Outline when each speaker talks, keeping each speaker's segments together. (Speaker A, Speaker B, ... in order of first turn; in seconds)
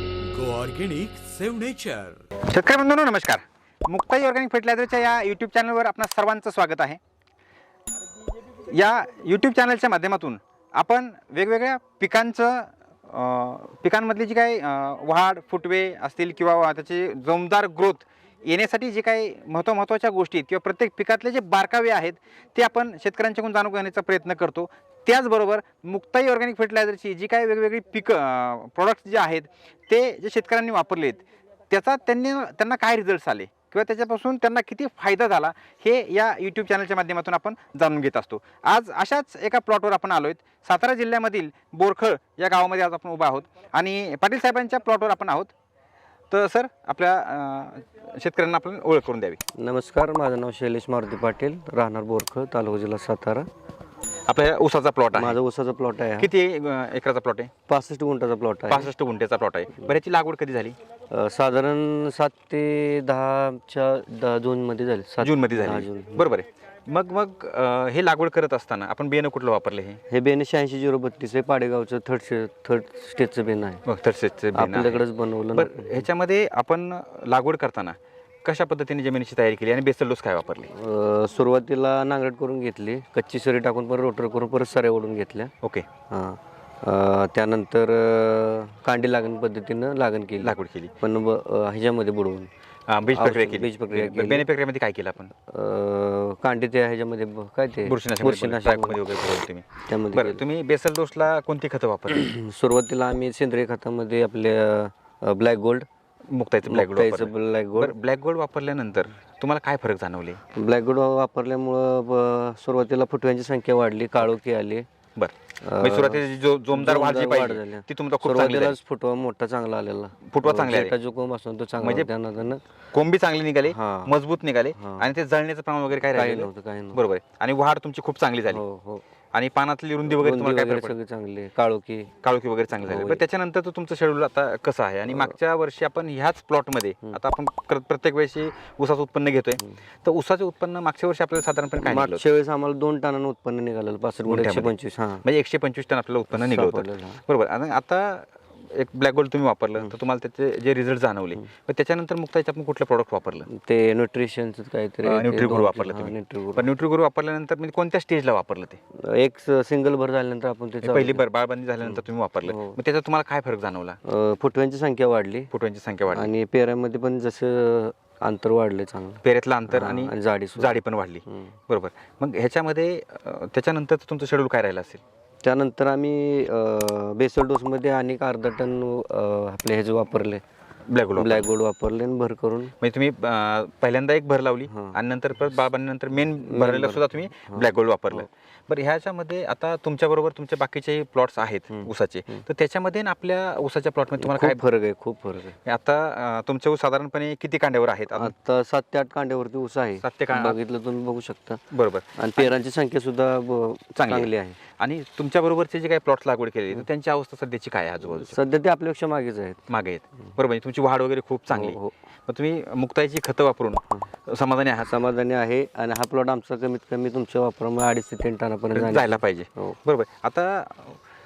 Speaker A: 0.2-2.2
Speaker B: 2.5-7.0, 8.7-45.5, 46.3-49.4, 54.3-55.4, 56.2-57.5, 58.7-60.8, 65.2-70.0, 73.9-80.7, 85.6-85.9, 90.4-90.9, 92.9-95.3, 97.8-102.3, 106.3-110.4, 115.2-118.8, 120.3-121.0, 121.8-122.1, 122.9-128.6, 129.3-131.0, 132.2-142.3, 144.2-153.5, 155.0-158.8, 160.8-164.0, 165.5-166.3, 169.2-175.0, 180.9-181.5, 182.8-194.6, 195.7-198.3, 200.0-200.6, 201.7-202.6, 204.0-208.4, 209.7-214.9, 218.7-221.0
Speaker C: 49.6-53.5, 55.1-56.3, 57.7-58.9, 61.1-66.3, 70.1-73.8, 74.5-76.1, 80.7-85.5, 86.1-92.5, 93.1-94.5, 95.5-99.0, 99.9-100.4, 102.1-105.9, 106.7-108.0, 110.5-114.9, 115.6-122.6, 123.7-124.2, 124.8-125.1, 126.1-127.0, 128.5-129.1, 130.1-132.1, 132.8-133.2, 141.8-145.2, 146.3-147.2, 153.5-156.7, 159.0-161.2, 161.8-162.8, 164.1-165.5, 166.1-171.5, 175.4-180.4, 181.2-182.7, 184.7-185.0, 186.4-187.7, 191.7-192.4, 194.2-195.6, 198.1-201.6, 202.2-204.6, 208.1-209.6, 211.5-211.9, 214.8-219.8